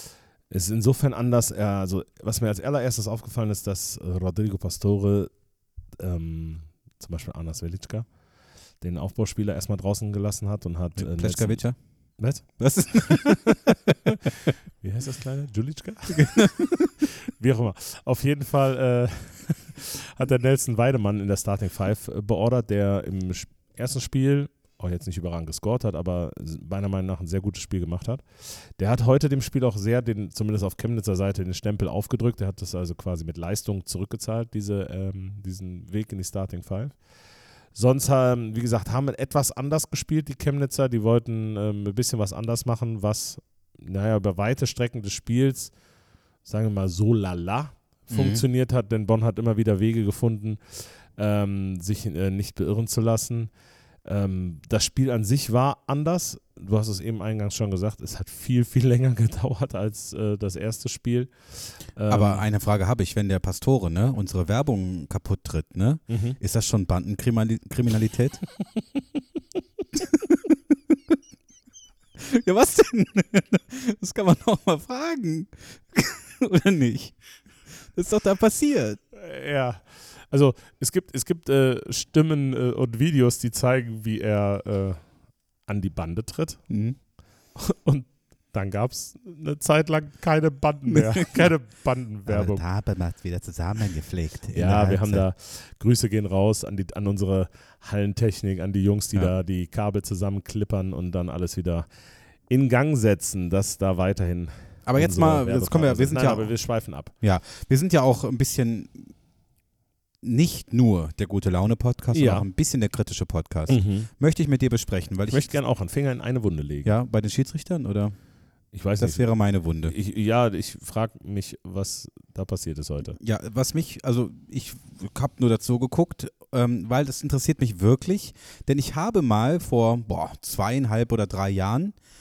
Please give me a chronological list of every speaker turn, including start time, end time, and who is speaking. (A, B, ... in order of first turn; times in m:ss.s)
0:00.5-0:13.2 A
0:11.0-0:13.6 B
0:14.8-0:16.7 A
0:17.3-1:02.4 A
0:48.1-0:48.4 B
1:02.1-1:08.5 B
1:06.1-1:06.4 A
1:12.2-1:19.0 B
1:19.1-1:32.6 A
1:26.7-1:27.0 B
1:30.9-1:31.6 B
1:32.2-1:35.3 B
1:34.5-1:47.1 A
1:44.8-1:49.2 B
1:50.2-1:55.6 B
1:52.1-1:52.5 A
1:53.7-1:54.1 A
1:55.3-1:56.9 A
1:56.8-1:59.9 B
1:58.7-2:03.2 A
2:03.2-2:12.0 B